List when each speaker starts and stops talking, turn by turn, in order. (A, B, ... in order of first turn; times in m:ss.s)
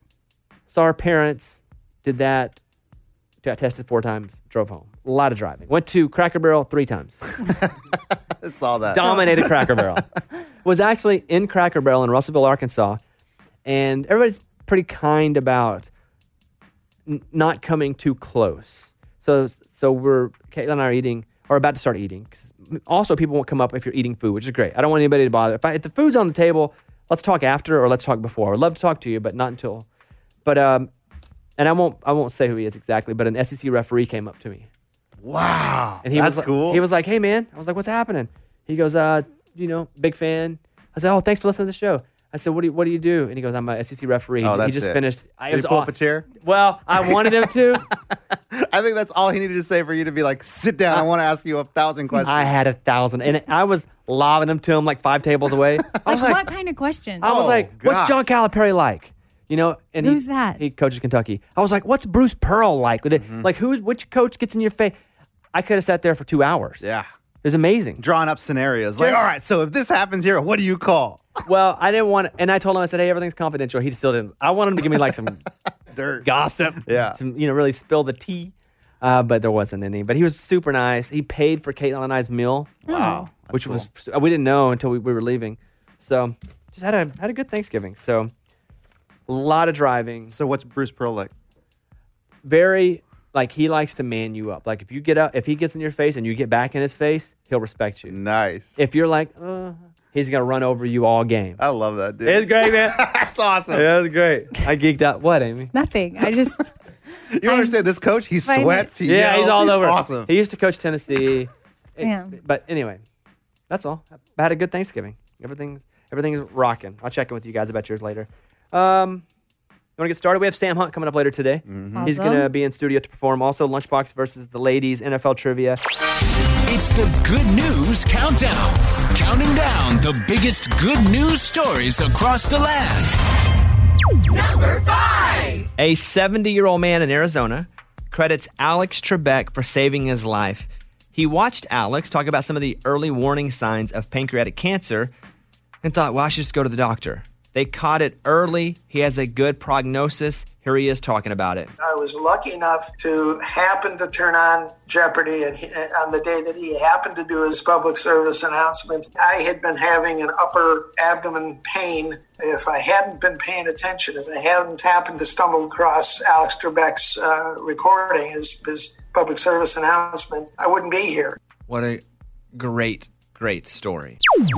0:00.7-0:02.6 A
0:03.4-0:07.4 A
0:08.4-0:10.0 B
0:08.9-0:10.0 A
0:10.6-0:13.0 A
0:13.6-0:15.9 A
0:17.1-0:29.9 A
0:30.4-0:30.9 A
0:31.6-0:34.7 A
0:35.2-0:36.8 B
0:36.0-0:47.8 A
0:44.4-0:46.3 B
0:47.0-0:47.9 B
0:48.5-0:52.5 B
0:52.2-0:56.4 A
0:56.0-0:56.3 B
0:56.1-0:57.3 C
0:57.2-1:05.0 A
0:57.2-0:58.2 B
1:00.0-1:00.6 C
1:03.1-1:03.5 B
1:05.5-1:06.8 A
1:06.8-1:07.1 B
1:07.4-1:08.0 A
1:08.0-1:11.2 B
1:09.0-1:09.3 A
1:11.4-1:15.4 A
1:15.9-1:16.3 B
1:16.2-1:22.9 A
1:16.8-1:17.2 B
1:22.9-1:23.9 B
1:22.9-1:23.2 C
1:23.5-1:28.3 A
1:29.3-1:30.4 A
1:30.3-1:31.3 B
1:32.4-1:38.2 A
1:38.1-1:38.8 B
1:38.8-1:41.6 A
1:41.6-1:43.8 B
1:42.2-1:43.0 A
1:43.7-1:45.7 A
1:45.7-1:46.7 C
1:47.3-1:50.3 B
1:47.4-1:47.8 C
1:48.4-1:48.9 C
1:49.0-1:53.0 A
1:52.0-1:52.3 C
1:53.7-1:59.2 A
2:00.0-2:05.8 A
2:01.7-2:02.1 B
2:02.0-2:02.5 C
2:06.6-2:13.1 D
2:15.8-2:25.1 A
2:25.8-2:31.7 A
2:31.8-2:51.4 E
2:51.7-2:52.0 A
2:52.6-2:54.2 A